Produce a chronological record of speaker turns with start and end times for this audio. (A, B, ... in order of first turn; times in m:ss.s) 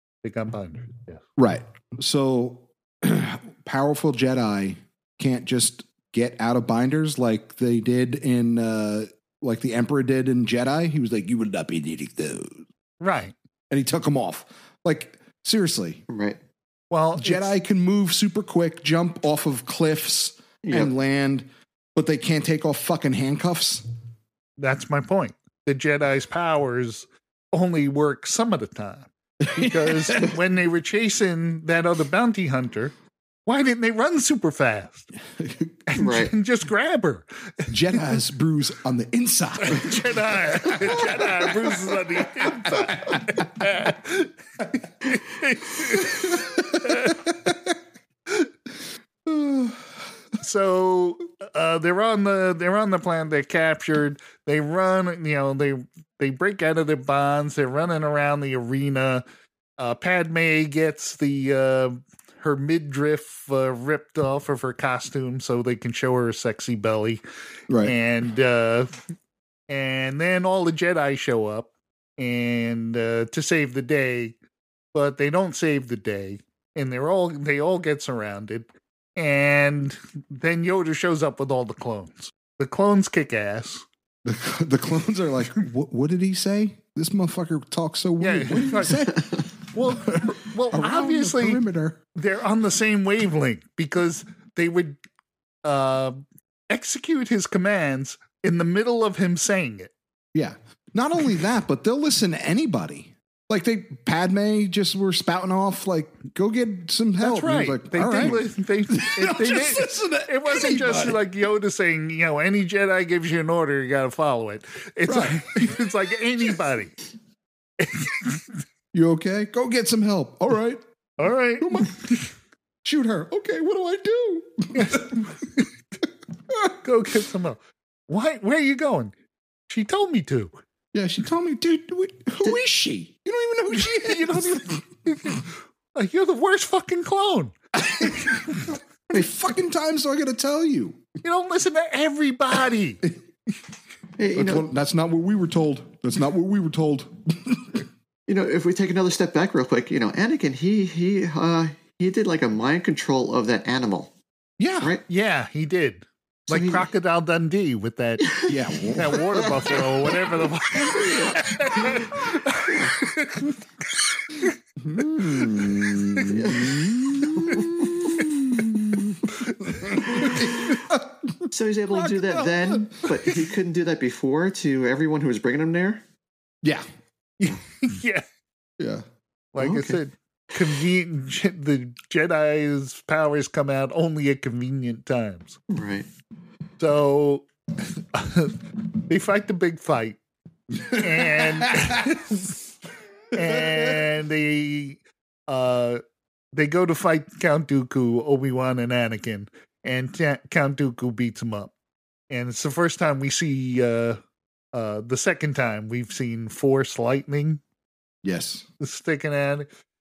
0:00.2-0:01.2 A
0:01.4-0:12.6 B
0:13.0-0:13.3 A
0:13.7-0:16.0 B
0:16.1-0:16.4 C
0:16.9-0:17.5 A
0:17.2-0:23.8 B
0:20.6-0:20.9 C
0:24.6-0:32.9 A
0:29.4-0:30.3 B
0:33.4-0:35.1 A
0:35.4-0:35.7 B
0:35.9-0:37.7 A
0:36.0-0:36.3 C
0:37.7-0:41.5 B
0:39.6-0:47.2 A
0:42.4-0:43.4 B
0:49.2-0:49.8 B
0:50.4-0:59.2 A
0:59.8-1:07.2 A
1:07.7-1:07.9 B
1:07.8-1:09.0 A
1:09.7-1:14.3 A
1:14.9-1:23.8 A
1:24.2-1:29.3 B
1:28.2-1:29.2 A
1:29.7-1:31.6 A
1:29.9-1:32.0 B
1:32.1-1:35.0 A
1:35.6-1:39.9 A
1:40.3-1:51.2 B
1:47.2-1:56.9 A
1:55.0-1:55.5 B
1:57.8-1:58.4 A
1:58.9-2:00.8 B
2:01.2-2:02.3 A
2:01.6-2:02.0 B
2:02.8-2:05.2 B
2:04.7-2:05.7 A
2:06.8-2:09.1 A
2:09.7-2:10.5 A
2:10.9-2:14.8 B
2:13.8-2:18.6 A
2:17.8-2:21.0 B
2:21.2-2:23.0 A
2:24.2-2:24.7 C
2:24.3-2:27.8 B
2:28.3-2:34.1 C
2:34.6-2:35.0 B
2:35.1-2:43.6 A
2:36.5-2:36.8 B
2:38.4-2:39.4 B
2:40.7-2:42.1 C
2:42.7-2:43.0 C
2:44.8-2:53.1 B
2:45.2-2:46.4 A
2:46.3-2:47.9 C
2:49.4-2:50.0 A
2:50.2-2:50.4 C
2:51.5-2:56.0 C
2:57.4-2:58.2 A
2:58.8-2:59.0 B
2:59.5-3:05.6 A
2:59.6-3:00.0 C
3:05.7-3:06.1 C
3:06.8-3:10.2 A
3:10.8-3:12.6 A
3:10.9-3:12.0 B
3:13.3-3:16.0 A
3:13.4-3:14.0 B
3:16.5-3:21.7 A
3:22.3-3:24.2 A
3:24.7-3:27.6 A
3:28.2-3:28.6 B
3:28.8-3:29.7 A